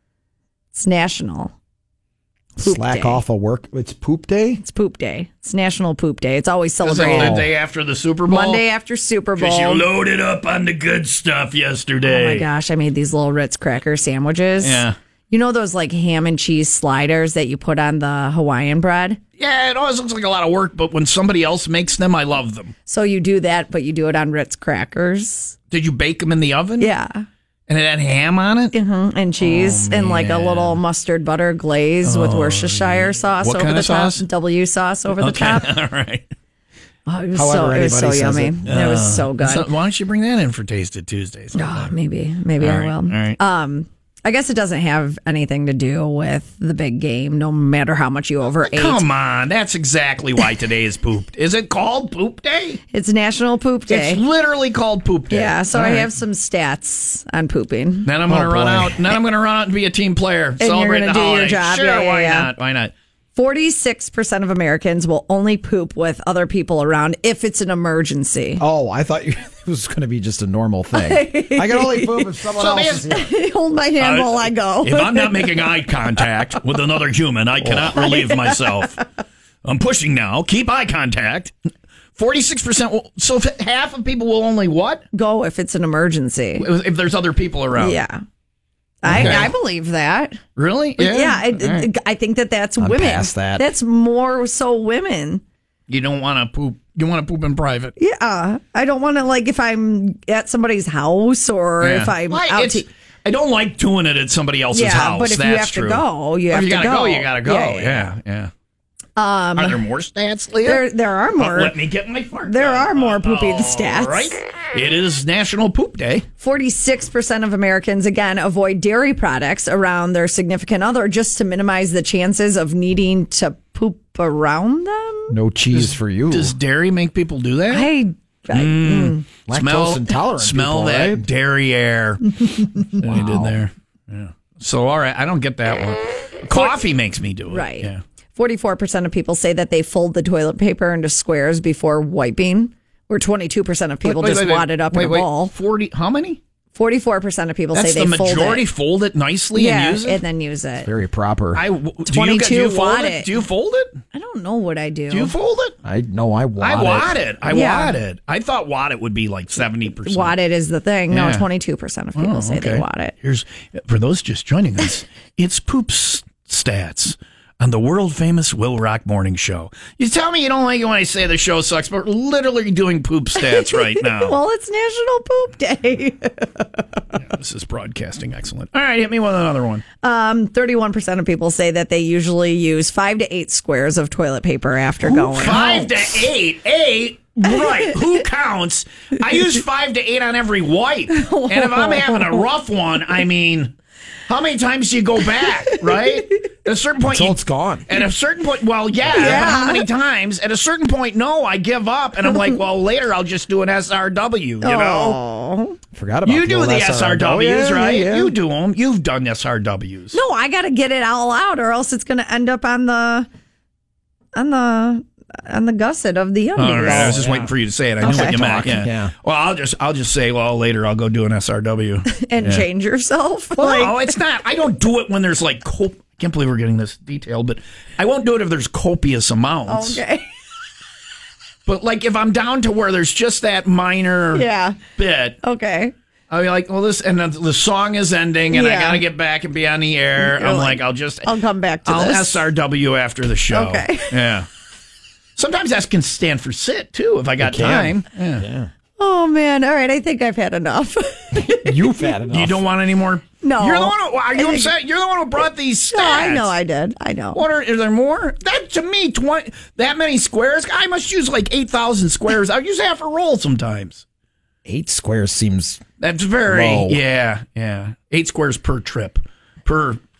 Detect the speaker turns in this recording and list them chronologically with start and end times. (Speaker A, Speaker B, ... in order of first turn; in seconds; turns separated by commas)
Speaker A: 0.7-1.5, Speaker B: 2.5-4.6, Speaker A: 2.6-3.2, Speaker A: 4.6-7.4, Speaker C: 6.8-8.6, Speaker B: 7.0-7.5, Speaker A: 8.2-9.9, Speaker C: 9.4-12.5, Speaker A: 12.0-19.2, Speaker C: 14.6-14.9, Speaker C: 19.4-22.7, Speaker A: 22.9-25.5, Speaker C: 25.7-26.9, Speaker A: 26.8-27.2, Speaker C: 27.7-28.7, Speaker A: 28.7-35.7, Speaker C: 29.4-30.8, Speaker C: 32.0-34.2, Speaker C: 35.1-36.3, Speaker A: 37.1-39.7, Speaker B: 37.3-38.9, Speaker C: 38.6-41.9, Speaker A: 41.5-49.0, Speaker C: 42.6-43.4, Speaker C: 48.6-52.8, Speaker A: 52.9-54.2, Speaker C: 53.9-56.1, Speaker A: 55.3-58.1, Speaker C: 58.0-62.9, Speaker B: 58.2-59.0, Speaker A: 60.6-62.5, Speaker A: 63.3-68.6, Speaker B: 68.6-73.3, Speaker A: 70.9-72.5, Speaker C: 72.5-73.2, Speaker A: 73.0-76.1, Speaker C: 74.0-79.0, Speaker A: 77.7-79.0, Speaker C: 79.6-81.5, Speaker C: 82.2-85.0, Speaker A: 85.1-86.7, Speaker C: 86.5-88.0, Speaker A: 87.7-88.2, Speaker A: 89.0-90.4, Speaker C: 89.0-89.5, Speaker C: 90.5-91.9, Speaker A: 91.0-95.4, Speaker B: 92.8-93.7, Speaker C: 95.9-97.9, Speaker A: 98.0-102.9, Speaker C: 101.8-108.5, Speaker A: 104.7-108.1, Speaker A: 109.2-109.8, Speaker C: 109.5-116.2, Speaker A: 110.6-111.7, Speaker A: 112.4-114.4, Speaker A: 116.4-125.3, Speaker B: 125.3-126.5, Speaker C: 125.7-127.9, Speaker A: 127.7-129.2, Speaker C: 128.5-138.0, Speaker B: 129.5-131.2, Speaker B: 133.0-133.6, Speaker A: 136.5-136.8, Speaker A: 137.5-145.5, Speaker C: 144.0-146.4, Speaker A: 146.7-148.7, Speaker C: 147.7-150.2, Speaker A: 149.5-150.9, Speaker B: 150.8-151.6, Speaker C: 151.5-154.0, Speaker A: 152.1-153.3, Speaker A: 154.1-155.3, Speaker C: 155.1-155.8, Speaker B: 155.8-157.2, Speaker C: 156.6-160.3, Speaker A: 157.5-158.0, Speaker A: 160.0-163.1, Speaker C: 161.1-161.4, Speaker C: 162.2-174.4, Speaker A: 173.3-177.0, Speaker C: 177.2-179.8, Speaker A: 180.0-186.2, Speaker C: 185.0-193.7, Speaker A: 191.1-192.4, Speaker C: 194.3-205.2, Speaker A: 195.4-196.0, Speaker B: 197.1-197.9, Speaker A: 199.1-199.9, Speaker A: 204.6-205.8, Speaker B: 205.9-208.3, Speaker C: 206.2-210.2, Speaker A: 210.1-213.3, Speaker A: 214.3-217.2, Speaker C: 216.6-222.6, Speaker B: 216.8-219.1, Speaker A: 218.0-218.6, Speaker A: 222.1-224.1, Speaker C: 223.6-230.0, Speaker A: 229.7-230.3, Speaker C: 231.7-235.4, Speaker A: 234.3-234.8, Speaker A: 235.4-235.9, Speaker C: 236.3-241.3, Speaker A: 238.5-239.0, Speaker A: 240.2-242.4, Speaker C: 241.8-244.5, Speaker A: 243.5-244.2, Speaker C: 245.3-248.4, Speaker B: 247.4-248.7, Speaker A: 249.0-252.1, Speaker B: 251.3-252.6, Speaker C: 252.3-256.5, Speaker A: 253.4-254.7, Speaker A: 255.9-257.4, Speaker C: 257.3-264.0, Speaker B: 264.6-265.8, Speaker C: 266.0-270.0, Speaker B: 266.4-267.0